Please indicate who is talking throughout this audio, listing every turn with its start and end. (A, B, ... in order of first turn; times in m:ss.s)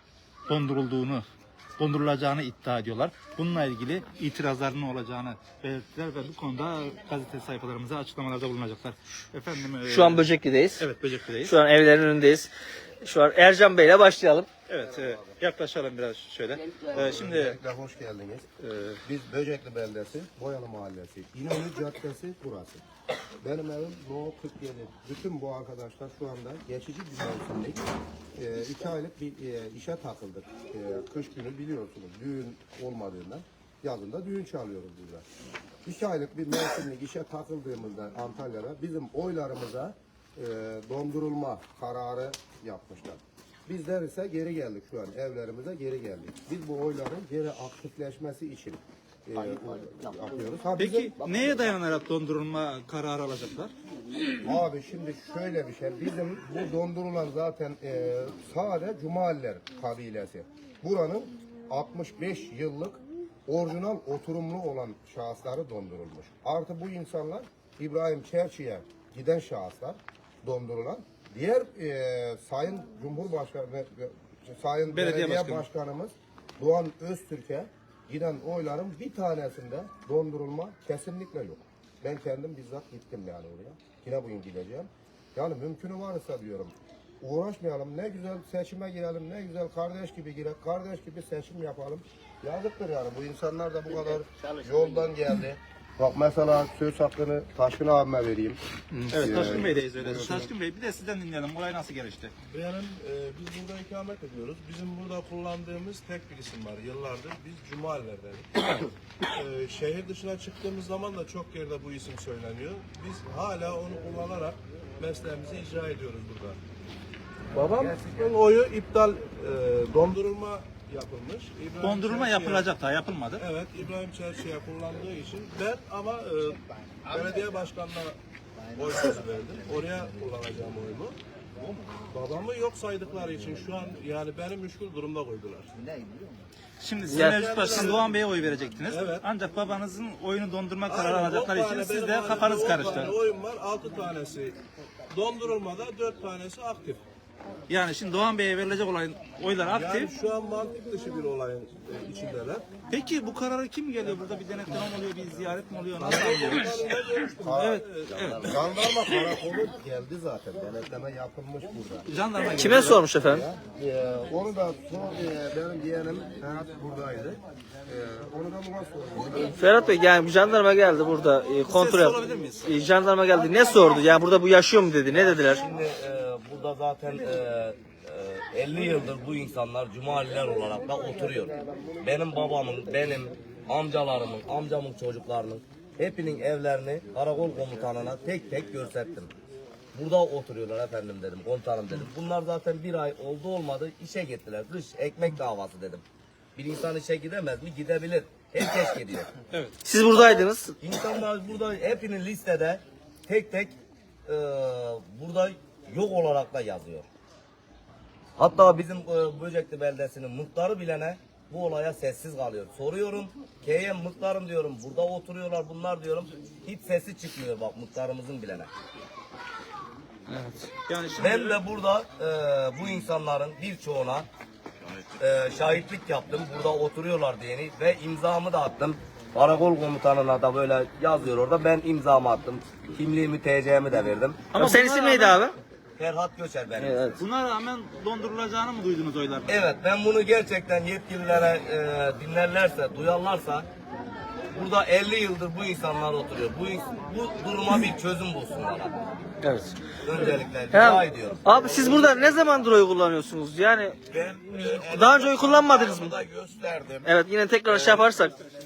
0:00.5-0:01.2 A
0:01.8-0:11.6 A
0:09.9-0:10.9 B
0:11.4-0:12.5 B
0:13.0-0:14.5 B
0:14.7-0:17.6 A
0:16.9-0:18.5 C
0:18.6-0:19.0 A
0:19.0-0:22.8 C
0:23.4-0:27.8 C
0:28.4-0:35.2 C
0:35.8-0:51.6 C
0:50.8-0:53.7 A
0:54.4-1:38.6 C
1:14.9-1:15.7 A
1:38.9-1:42.3 A
1:39.1-1:40.5 C
1:42.5-1:56.6 D
1:57.5-2:02.7 D
2:01.8-2:03.4 A
2:03.4-2:08.2 D
2:08.8-2:11.2 D
2:12.1-2:15.7 D
2:16.8-2:23.2 A
2:17.1-2:18.2 D
2:18.9-2:19.2 D
2:20.9-2:24.6 D
2:25.1-2:27.0 D
2:27.7-2:30.1 A
2:29.7-2:32.6 D
2:32.9-2:36.7 A
2:36.0-2:38.1 D
2:37.4-2:37.8 C
2:37.5-2:38.5 A
2:38.4-2:42.1 C
2:42.1-2:43.0 A
2:42.5-2:43.5 B
2:42.7-2:49.6 C
2:49.6-2:55.6 B
2:51.6-2:52.7 A
2:55.2-3:09.3 E
3:00.5-3:02.1 C
3:10.0-3:16.0 E
3:16.6-3:19.3 E
3:19.8-3:20.7 B
3:20.1-3:23.8 E
3:24.3-3:27.1 E
3:28.4-3:38.7 E
3:40.9-3:41.6 A
3:41.2-3:44.3 E
3:45.2-3:54.5 E
3:54.5-3:55.4 A
3:54.6-3:55.6 B
3:56.0-3:57.2 E
3:56.8-3:57.2 B
3:57.2-3:59.5 A
3:59.5-4:03.7 E
4:04.5-4:09.0 E
4:09.4-4:09.8 B
4:10.0-4:11.5 E
4:10.7-4:14.0 B
4:14.1-4:17.1 F
4:14.5-4:16.2 B
4:17.0-4:18.3 B
4:17.7-4:18.1 F